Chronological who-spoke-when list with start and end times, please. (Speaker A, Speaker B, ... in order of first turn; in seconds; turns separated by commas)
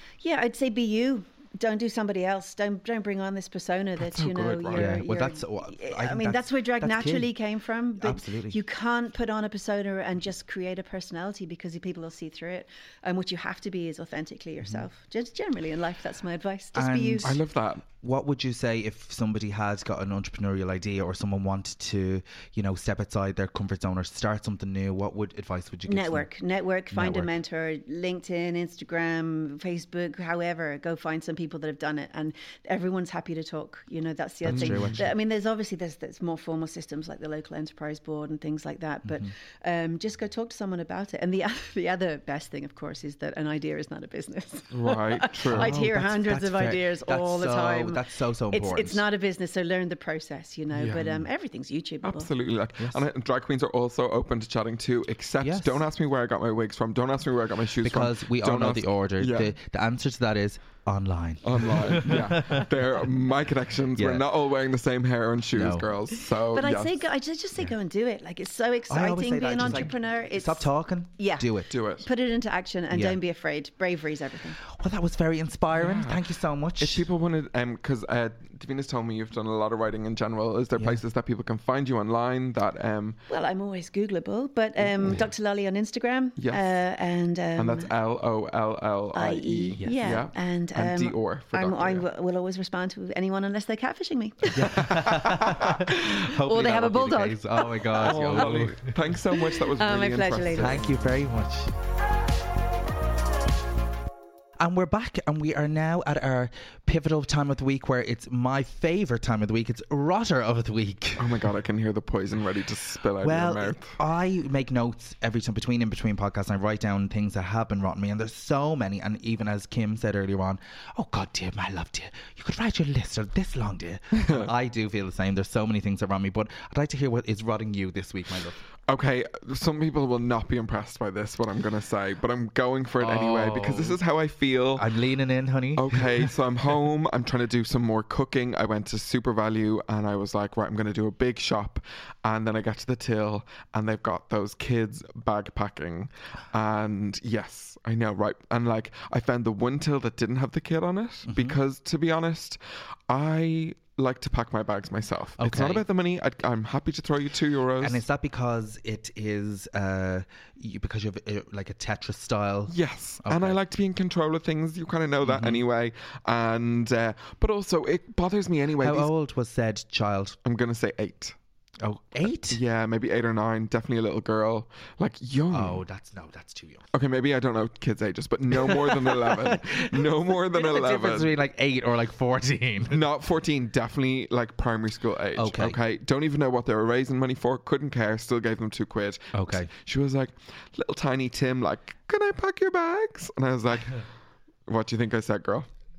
Speaker A: 0.2-17.3, Speaker B: 4.0-5.0, Speaker C: 4.7-7.4, Speaker C: 8.0-8.6, Speaker C: 16.7-26.3, Speaker B: 17.2-17.8, Speaker A: 25.9-52.3, Speaker C: 26.9-27.3, Speaker C: 34.4-35.1, Speaker B: 34.5-35.1, Speaker C: 39.0-39.3, Speaker B: 44.7-45.9, Speaker C: 45.5-49.0, Speaker B: 50.7-51.2, Speaker C: 51.0-51.2, Speaker B: 52.0-59.5, Speaker C: 52.8-53.0, Speaker C: 55.4-55.8, Speaker C: 57.8-62.7, Speaker B: 61.4-67.0, Speaker C: 63.9-64.2, Speaker C: 65.5-65.9, Speaker A: 66.5-71.5, Speaker C: 68.9-71.7, Speaker B: 69.6-69.9, Speaker B: 71.7-72.1, Speaker A: 72.0-74.6, Speaker C: 72.9-73.2, Speaker C: 74.6-77.1, Speaker B: 75.7-76.2, Speaker B: 76.8-83.2, Speaker A: 83.3-87.9, Speaker B: 86.3-86.8, Speaker B: 87.5-92.1, Speaker A: 89.1-95.2, Speaker C: 89.8-90.1, Speaker C: 94.5-99.1, Speaker B: 94.6-95.9, Speaker A: 95.9-98.5, Speaker B: 98.0-100.9, Speaker A: 99.3-100.8, Speaker C: 100.5-101.7, Speaker C: 104.6-111.4, Speaker B: 111.2-114.0, Speaker C: 113.2-128.6, Speaker B: 124.1-124.5, Speaker B: 128.9-134.9, Speaker C: 133.0-134.0, Speaker C: 134.8-136.3, Speaker B: 135.8-158.0, Speaker C: 151.3-151.6, Speaker C: 155.4-155.8, Speaker C: 157.8-163.6, Speaker B: 162.7-169.1, Speaker C: 165.2-165.6, Speaker C: 168.8-170.4, Speaker B: 170.4-171.3, Speaker C: 171.8-172.6, Speaker B: 172.5-175.8, Speaker C: 175.5-176.8, Speaker B: 176.9-181.3, Speaker C: 178.6-183.0, Speaker B: 182.9-194.0, Speaker C: 185.3-185.8, Speaker C: 189.3-189.7, Speaker B: 194.7-195.7